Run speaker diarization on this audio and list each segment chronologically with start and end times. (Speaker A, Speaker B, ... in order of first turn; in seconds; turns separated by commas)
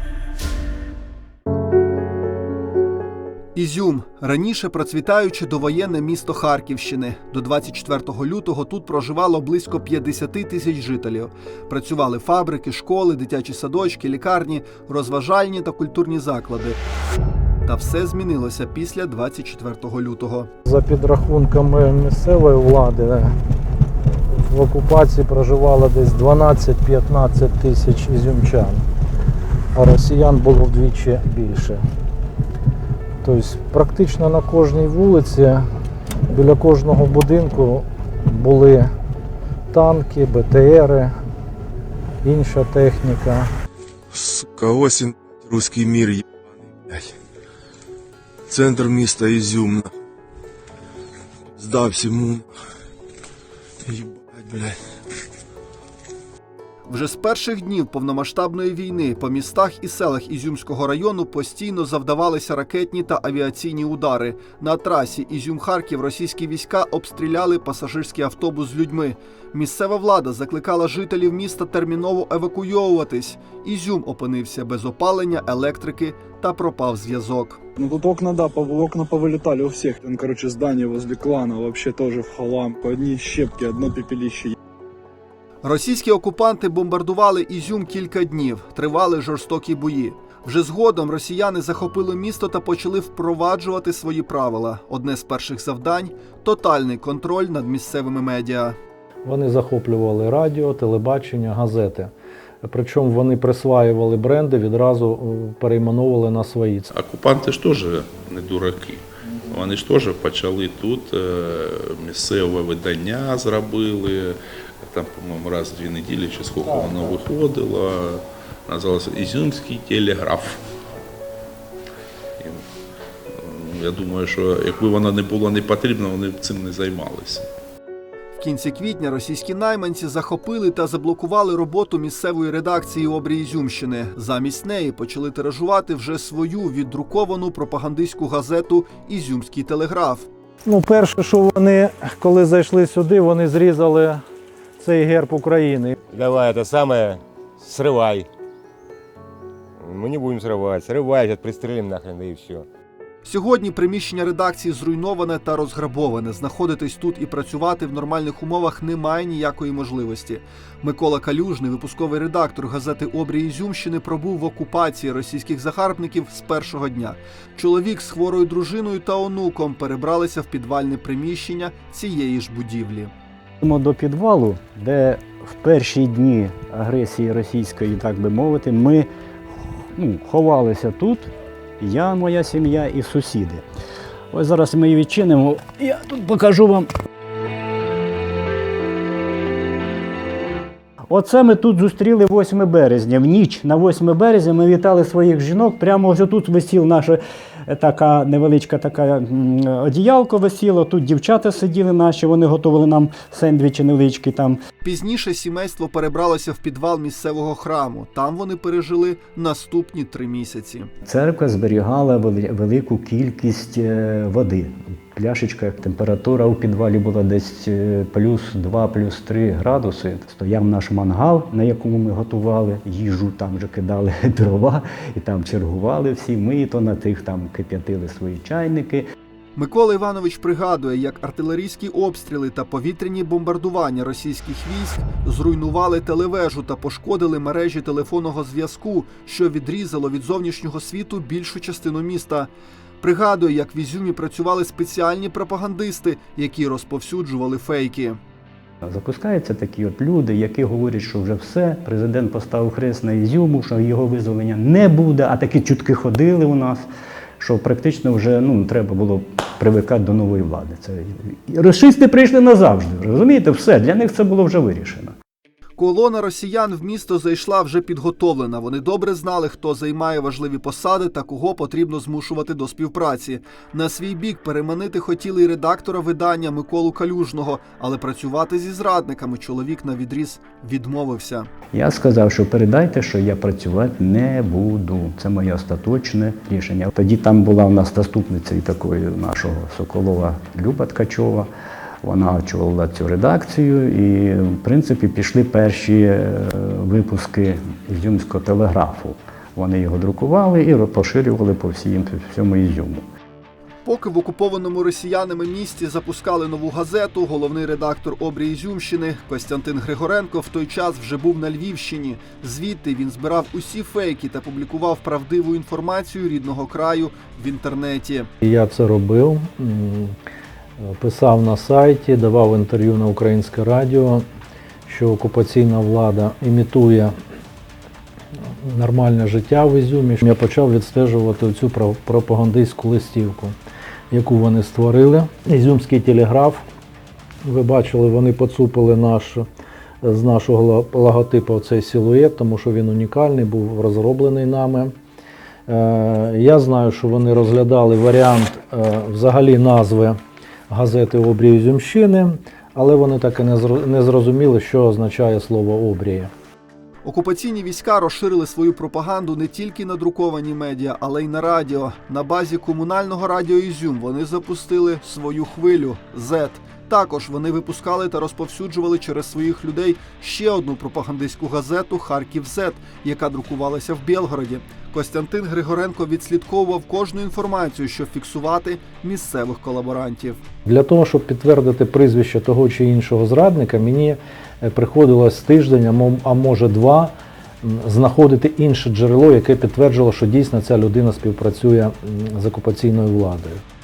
Speaker A: 3.5-16.8, Speaker A: 17.6-20.5, Speaker B: 20.6-23.3, Speaker B: 24.3-28.8, Speaker B: 29.7-31.8, Speaker B: 33.2-35.6, Speaker B: 36.3-38.9, Speaker B: 39.7-41.1, Speaker B: 42.2-43.5, Speaker C: 44.1-46.2, Speaker C: 48.5-49.9, Speaker C: 51.6-52.5, Speaker C: 53.9-54.8, Speaker A: 56.9-77.6, Speaker D: 77.7-84.5, Speaker A: 85.6-98.8, Speaker B: 99.2-102.1, Speaker B: 102.6-106.9, Speaker E: 106.9-120.6, Speaker B: 116.6-117.1, Speaker E: 123.4-127.5, Speaker A: 128.3-140.3, Speaker B: 140.6-144.2, Speaker B: 144.8-145.9, Speaker F: 146.1-148.3, Speaker F: 149.8-152.7, Speaker A: 153.2-173.1, Speaker G: 173.6-183.7, Speaker G: 184.3-186.9, Speaker G: 191.1-204.6, Speaker A: 204.8-210.9, Speaker G: 211.0-229.1, Speaker A: 229.6-242.5, Speaker A: 243.0-248.2, Speaker G: 248.8-256.9, Speaker G: 257.4-265.1, Speaker A: 265.8-281.5, Speaker G: 281.7-291.5, Speaker G: 292.0-303.0, Speaker A: 303.8-318.3, Speaker B: 318.4-320.2, Speaker B: 320.8-324.2, Speaker B: 324.9-327.1, Speaker B: 328.6-333.5, Speaker B: 334.1-336.6, Speaker B: 337.4-339.4, Speaker B: 340.0-344.9, Speaker B: 345.7-350.2, Speaker B: 350.7-356.3, Speaker A: 357.0-380.4, Speaker B: 380.6-393.6